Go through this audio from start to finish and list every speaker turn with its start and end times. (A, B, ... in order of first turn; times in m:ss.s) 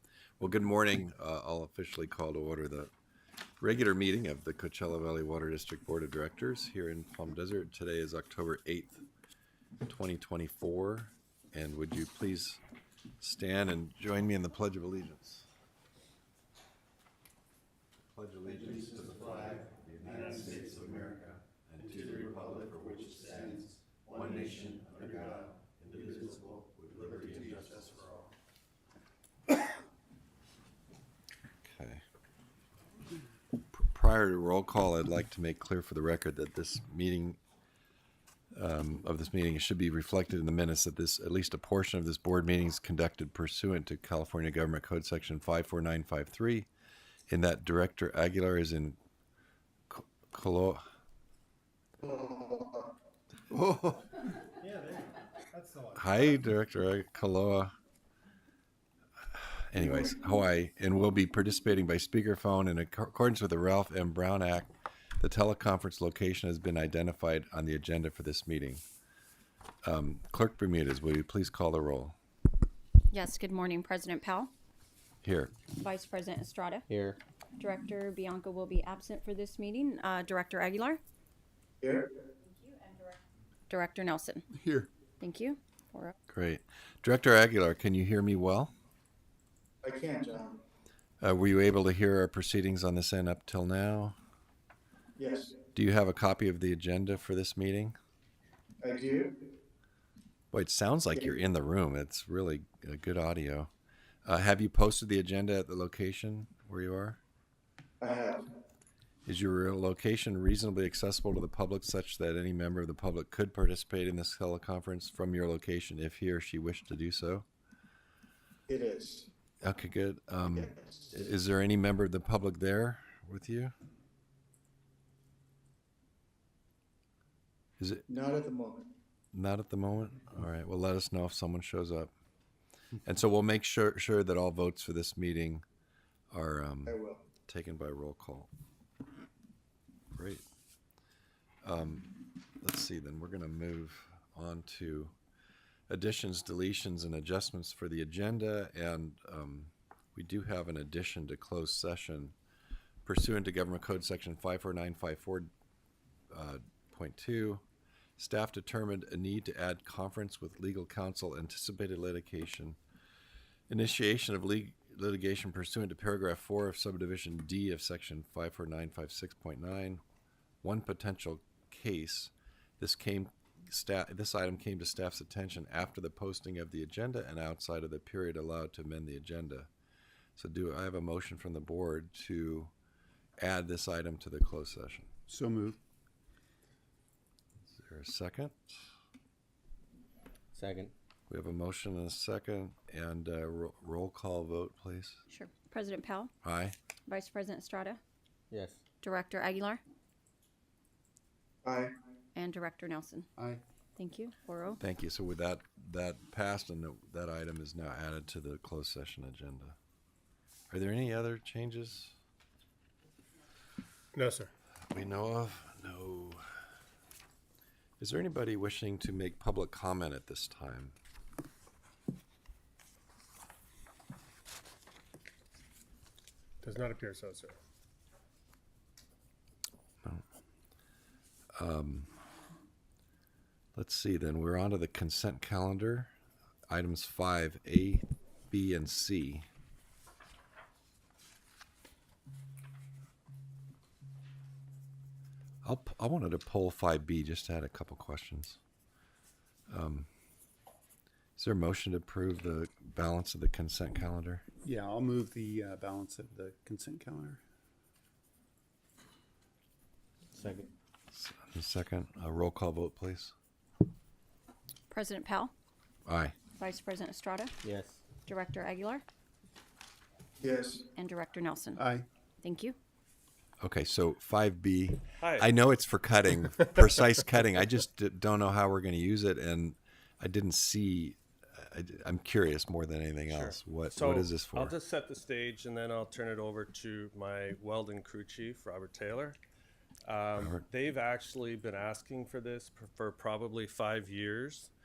0:00.4-0:02.9 A
0:03.6-0:09.0 A
0:09.8-0:12.6 A
0:13.2-0:15.5 A
0:18.1-0:28.2 A
0:31.6-0:32.0 A
0:33.7-0:37.4 A
0:38.5-0:46.7 A
0:47.3-0:49.0 A
0:49.9-0:50.8 A
0:52.0-0:52.9 B
0:53.5-0:54.0 A
0:54.6-0:55.0 C
0:55.9-0:57.7 A
0:59.3-1:08.8 A
1:09.8-1:12.2 A
1:13.1-1:14.5 D
1:15.2-1:15.5 A
1:15.7-1:16.9 D
1:16.9-1:17.2 E
1:17.6-1:21.0 D
1:21.8-1:22.1 B
1:22.4-1:24.4 D
1:24.5-1:24.9 F
1:25.2-1:26.2 D
1:26.3-1:28.7 A
1:29.8-1:30.6 B
1:31.2-1:34.2 A
1:35.2-1:35.6 B
1:35.7-1:38.0 A
1:38.8-1:39.4 B
1:40.5-1:43.7 A
1:44.2-1:47.2 A
1:48.0-1:48.4 B
1:49.2-1:57.5 A
1:58.7-1:59.3 B
1:59.6-2:03.7 A
2:07.8-2:08.1 A
2:08.1-2:08.9 B
2:09.3-2:12.1 A
2:13.0-2:15.6 A
2:16.3-2:18.5 A
2:16.8-2:17.2 B
2:20.1-2:20.4 A
2:21.6-2:25.1 A
2:25.9-2:32.3 A
2:33.0-2:35.5 A
2:36.3-2:37.6 A
2:38.2-2:42.8 A
2:43.7-2:50.0 A
2:50.6-2:59.7 A
3:00.4-3:02.7 A
3:03.4-3:05.1 A
3:05.3-3:05.8 F
3:07.7-3:08.8 A
3:10.5-3:10.9 E
3:11.3-3:15.2 A
3:15.3-3:16.3 D
3:16.4-3:16.7 A
3:17.1-3:18.0 D
3:18.5-3:18.8 E
3:19.0-3:19.8 D
3:21.6-3:21.9 B
3:22.3-3:23.3 D
3:23.4-3:23.6 F
3:24.0-3:24.8 D
3:24.8-3:29.8 A
3:30.7-3:32.1 A
3:34.2-3:34.5 C
3:34.9-3:36.4 A
3:38.0-3:40.9 A
3:46.6-3:47.6 C
3:51.6-3:52.1 A
3:53.8-3:56.1 A
3:56.7-3:59.5 A
4:05.6-4:08.6 A
4:09.7-4:10.1 A
4:11.4-4:14.4 A
4:14.6-4:17.4 F
4:20.3-4:20.7 E
4:21.1-4:23.3 A
4:24.9-4:25.5 D
4:26.0-4:26.3 A
4:26.5-4:27.5 D
4:27.6-4:28.0 E
4:28.2-4:29.0 D
4:30.4-4:30.8 B
4:31.0-4:31.8 D
4:31.8-4:32.1 F
4:32.4-4:32.8 D
4:33.6-4:44.7 A
4:35.2-4:35.5 C
4:43.3-4:49.4 C
4:50.0-4:54.7 C
4:50.4-4:50.6 A